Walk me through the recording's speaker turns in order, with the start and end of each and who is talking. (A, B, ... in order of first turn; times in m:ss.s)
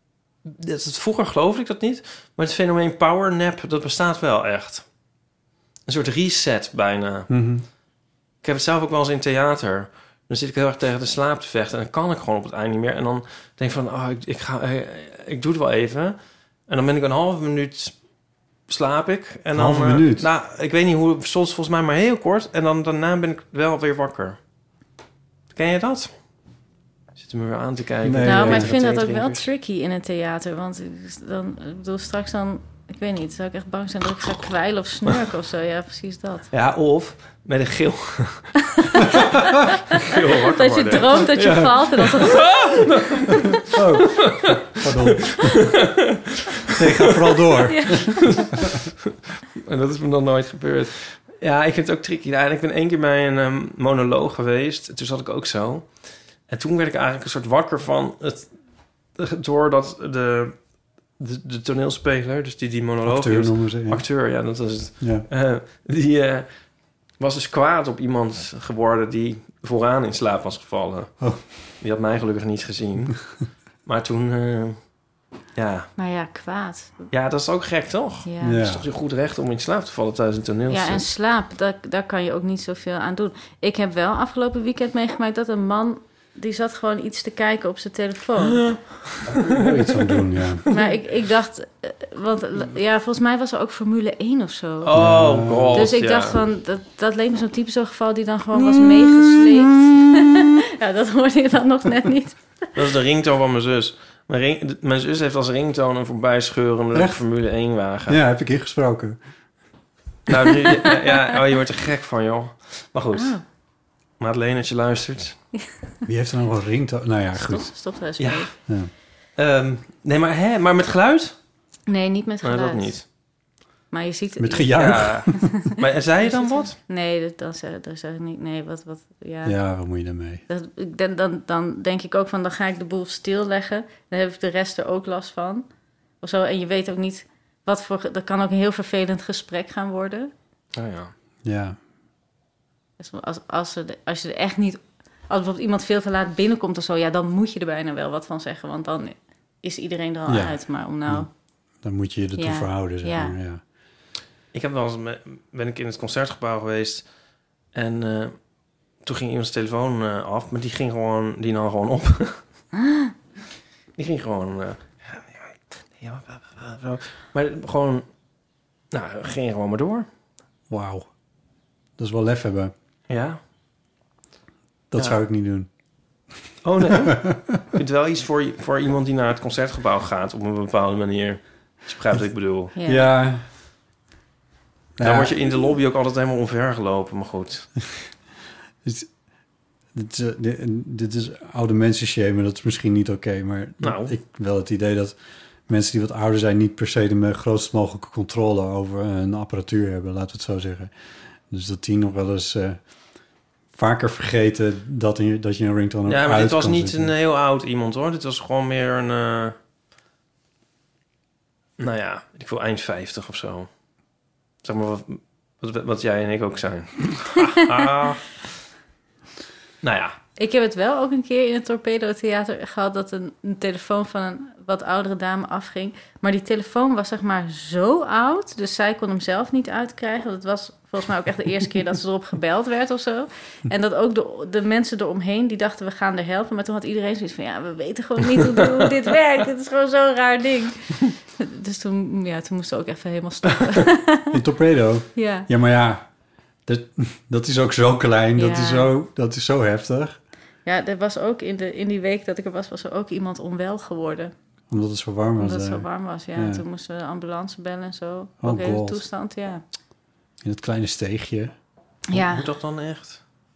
0:00.4-0:04.8 A
0:05.9-0:07.3 A
0:07.3-0:07.6 B
0:08.4-0:16.2 A
0:16.7-0:18.0 A
0:18.7-0:24.4 A
0:19.5-0:20.3 B
0:25.5-0:26.1 A
0:27.2-0:29.5 A
0:28.0-0:28.7 B
0:28.2-0:36.5 C
0:36.5-0:39.3 A
0:39.9-0:43.4 A
0:40.5-0:42.5 C
0:43.7-0:45.6 B
0:44.0-0:47.6 A
0:46.7-0:48.7 B
0:47.7-0:48.3 C
0:48.3-0:48.7 A
0:49.6-0:55.9 A
0:56.5-0:58.6 A
0:59.2-1:00.6 A
1:01.2-1:06.5 A
1:03.0-1:04.0 B
1:05.0-1:05.3 B
1:07.2-1:14.8 A
1:15.6-1:15.9 A
1:16.0-1:17.1 C
1:17.1-1:21.0 A
1:18.2-1:18.6 C
1:18.4-1:18.9 B
1:20.7-1:28.6 C
1:28.5-1:30.8 A
1:29.4-1:30.7 B
1:30.7-1:35.0 C
1:34.8-1:36.4 A
1:34.9-1:35.9 B
1:35.7-1:42.4 C
1:42.8-1:48.2 A
1:46.9-1:47.2 B
1:48.1-1:49.2 B
1:50.3-1:53.4 A
1:53.2-1:53.4 C
1:54.2-1:55.4 A
1:56.1-1:57.7 B
1:57.3-1:58.5 C
1:58.2-1:58.6 A
1:59.4-2:01.4 A
2:01.9-2:02.9 C
2:02.4-2:03.0 A
2:03.9-2:05.7 C
2:04.4-2:05.5 B
2:04.7-2:06.8 A
2:06.2-2:09.6 C
2:09.4-2:10.4 B
2:10.5-2:15.7 C
2:16.2-2:20.3 C
2:20.7-2:21.1 A
2:21.4-2:21.8 B
2:23.0-2:31.3 C
2:30.3-2:31.3 B
2:31.8-2:33.6 B
2:32.4-2:33.4 C
2:34.5-2:37.0 A
2:37.7-2:38.4 A
2:39.0-2:42.4 A
2:44.0-2:48.0 A
2:48.9-2:50.1 A
2:50.7-2:51.1 B
2:52.0-2:52.7 B
2:53.1-2:53.4 A
2:54.9-2:55.7 B
2:56.6-3:02.7 A
2:57.1-2:57.4 B
3:02.8-3:03.1 C
3:02.8-3:03.4 B
3:05.0-3:05.4 B
3:05.0-3:07.7 A
3:08.8-3:09.1 B
3:09.9-3:15.2 B
3:13.8-3:14.1 A
3:15.7-3:20.9 B
3:21.5-3:22.8 B
3:23.7-3:27.1 B
3:26.1-3:29.6 A
3:31.8-3:33.7 A
3:34.6-3:38.3 A
3:39.8-3:40.2 A
3:40.4-4:04.3 C
4:04.3-4:06.1 B
4:05.2-4:05.5 C
4:06.7-4:10.2 B
4:08.4-4:08.9 C
4:10.6-4:14.3 C
4:14.7-4:16.6 B
4:15.4-4:19.6 C
4:18.4-4:19.0 B
4:20.4-4:21.5 B
4:22.1-4:22.5 C
4:22.1-4:23.2 A